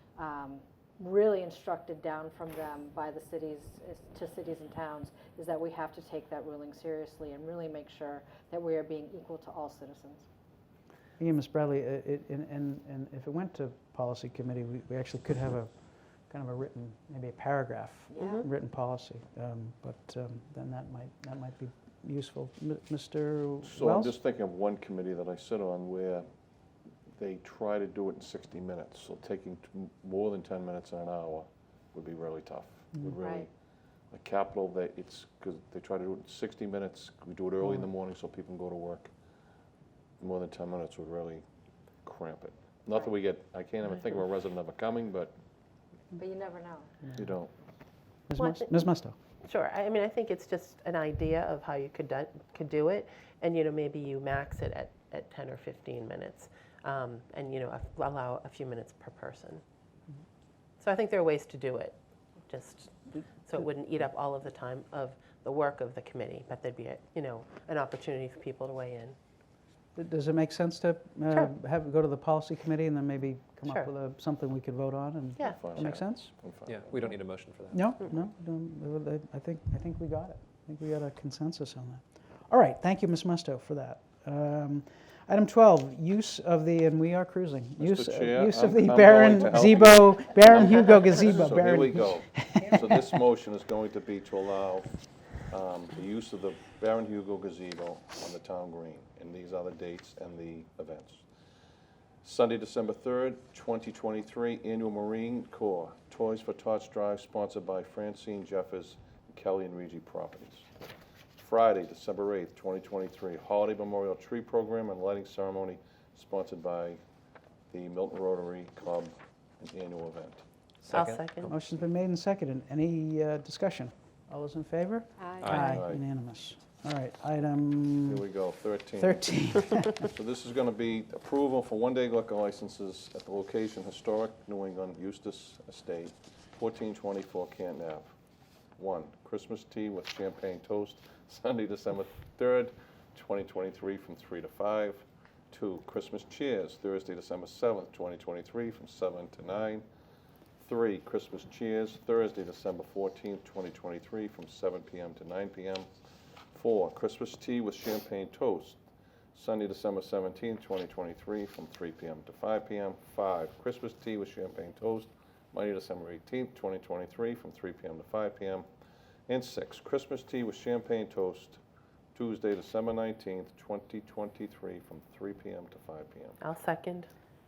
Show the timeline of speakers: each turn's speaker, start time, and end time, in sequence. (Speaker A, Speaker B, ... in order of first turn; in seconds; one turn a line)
Speaker A: 0.2-10.2
Speaker B: 11.2-24.2
Speaker C: 18.1-18.5
Speaker D: 23.6-26.3
Speaker D: 27.2-33.5
Speaker A: 33.2-33.5
Speaker D: 34.1-39.1
Speaker D: 40.2-41.4
Speaker D: 42.0-45.3
Speaker A: 46.1-46.9
Speaker B: 47.0-47.3
Speaker D: 47.2-47.5
Speaker B: 48.3-49.1
Speaker C: 48.4-48.8
Speaker C: 49.4-59.6
Speaker C: 60.8-69.2
Speaker B: 70.0-76.3
Speaker C: 73.6-73.9
Speaker C: 75.4-76.0
Speaker D: 75.4-76.8
Speaker E: 76.7-77.9
Speaker B: 77.7-92.9
Speaker D: 87.8-94.9
Speaker D: 95.5-101.2
Speaker D: 102.2-110.7
Speaker D: 111.4-117.0
Speaker D: 117.7-120.4
Speaker E: 120.8-121.3
Speaker C: 120.9-121.5
Speaker B: 121.5-128.2
Speaker A: 125.2-125.8
Speaker E: 125.4-125.8
Speaker D: 125.5-126.0
Speaker D: 128.1-129.3
Speaker B: 129.0-130.1
Speaker D: 130.0-138.1
Speaker D: 138.8-149.8
Speaker D: 150.6-155.9
Speaker D: 156.5-158.8
Speaker D: 159.3-168.7
Speaker D: 169.3-171.6
Speaker D: 172.1-176.4
Speaker C: 176.4-177.1